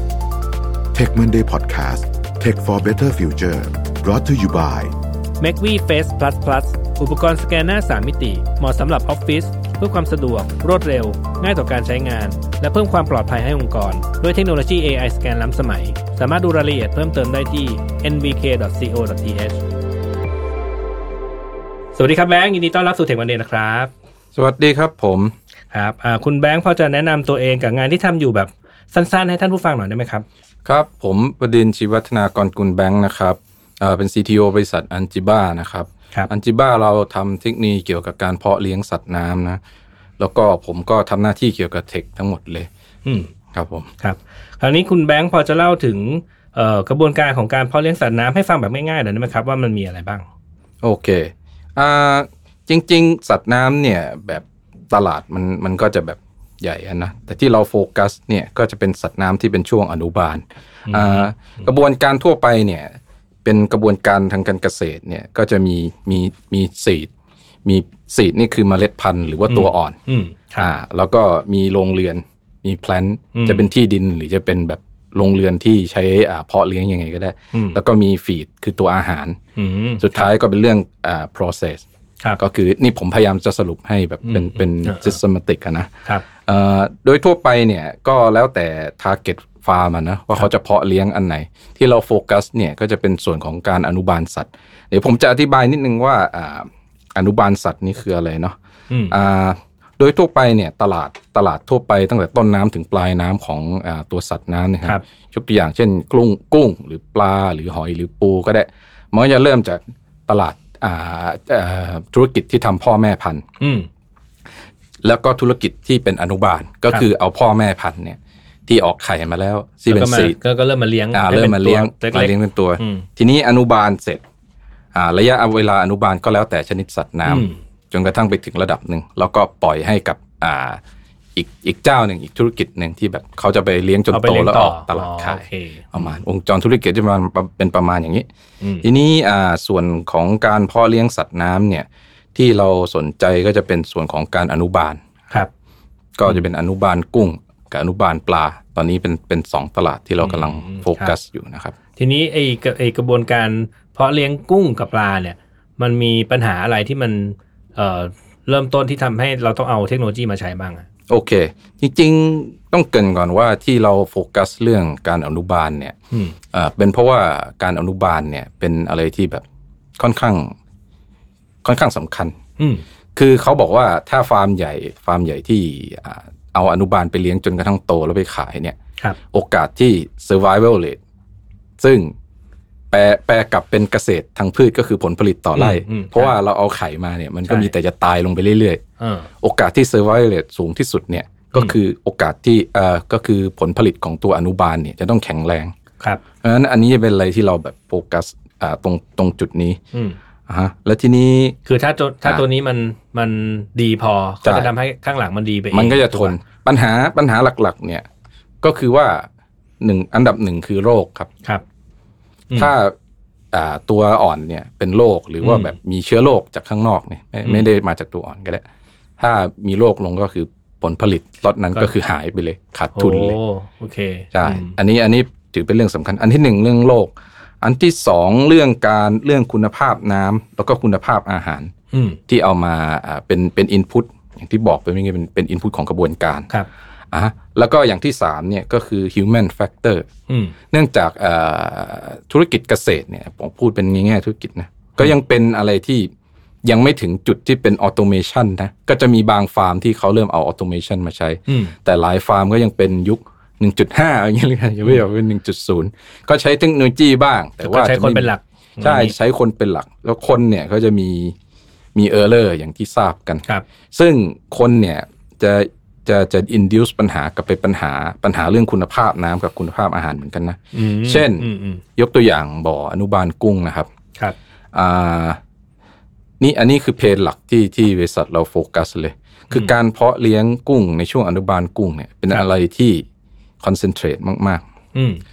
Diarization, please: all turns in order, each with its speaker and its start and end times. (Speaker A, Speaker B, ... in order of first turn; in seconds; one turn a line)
Speaker A: 0.9-4.9
Speaker B: 5.4-19.6
Speaker B: 21.9-23.9
Speaker C: 24.4-25.3
Speaker B: 25.7-30.2
Speaker C: 30.6-39.6
Speaker C: 40.2-42.7
Speaker C: 43.5-43.9
Speaker B: 44.0-50.2
Speaker C: 50.8-62.9
Speaker B: 60.9-61.7
Speaker C: 63.5-67.1
Speaker C: 67.7-70.0
Speaker B: 69.5-70.7
Speaker C: 70.6-79.4
Speaker B: 73.3-73.7
Speaker B: 77.5-77.8
Speaker B: 79.6-80.3
Speaker C: 80.0-81.8
Speaker C: 82.4-98.6
Speaker B: 84.2-85.2
Speaker B: 98.9-99.2
Speaker C: 99.1-113.5
Speaker B: 113.6-113.9
Speaker C: 115.0-120.4
Speaker B: 119.9-123.1
Speaker C: 121.1-124.2
Speaker C: 124.9-130.8
Speaker B: 127.3-127.6
Speaker C: 131.3-138.3
Speaker B: 134.1-136.2
Speaker B: 138.6-138.9
Speaker C: 138.8-145.0
Speaker C: 146.2-151.8
Speaker B: 150.2-151.1
Speaker B: 152.0-160.9
Speaker C: 161.1-166.0
Speaker B: 166.1-166.4
Speaker C: 166.5-169.4
Speaker C: 170.0-170.5
Speaker C: 171.6-172.3
Speaker B: 172.6-172.8
Speaker C: 173.2-178.8
Speaker C: 179.3-181.0
Speaker C: 181.8-182.1
Speaker C: 182.9-188.8
Speaker B: 185.6-186.3
Speaker B: 187.5-187.7
Speaker B: 189.0-189.3
Speaker C: 189.4-195.7
Speaker C: 196.4-199.8
Speaker C: 200.5-201.6
Speaker B: 201.7-206.4
Speaker C: 204.4-204.7
Speaker C: 205.7-208.1
Speaker C: 208.6-209.3
Speaker C: 209.8-211.3
Speaker C: 212.6-212.9
Speaker C: 213.5-218.6
Speaker B: 215.4-215.8
Speaker C: 219.2-223.4
Speaker B: 222.9-224.8
Speaker C: 224.3-231.7
Speaker B: 231.9-232.2
Speaker C: 232.3-236.5
Speaker C: 237.1-240.1
Speaker B: 240.3-240.6
Speaker C: 240.7-246.1
Speaker C: 246.7-261.4
Speaker B: 251.5-251.8
Speaker B: 257.6-259.1
Speaker C: 261.9-273.9
Speaker B: 270.7-271.8
Speaker C: 274.7-275.4
Speaker C: 276.4-283.1
Speaker C: 283.6-284.6
Speaker B: 284.9-285.2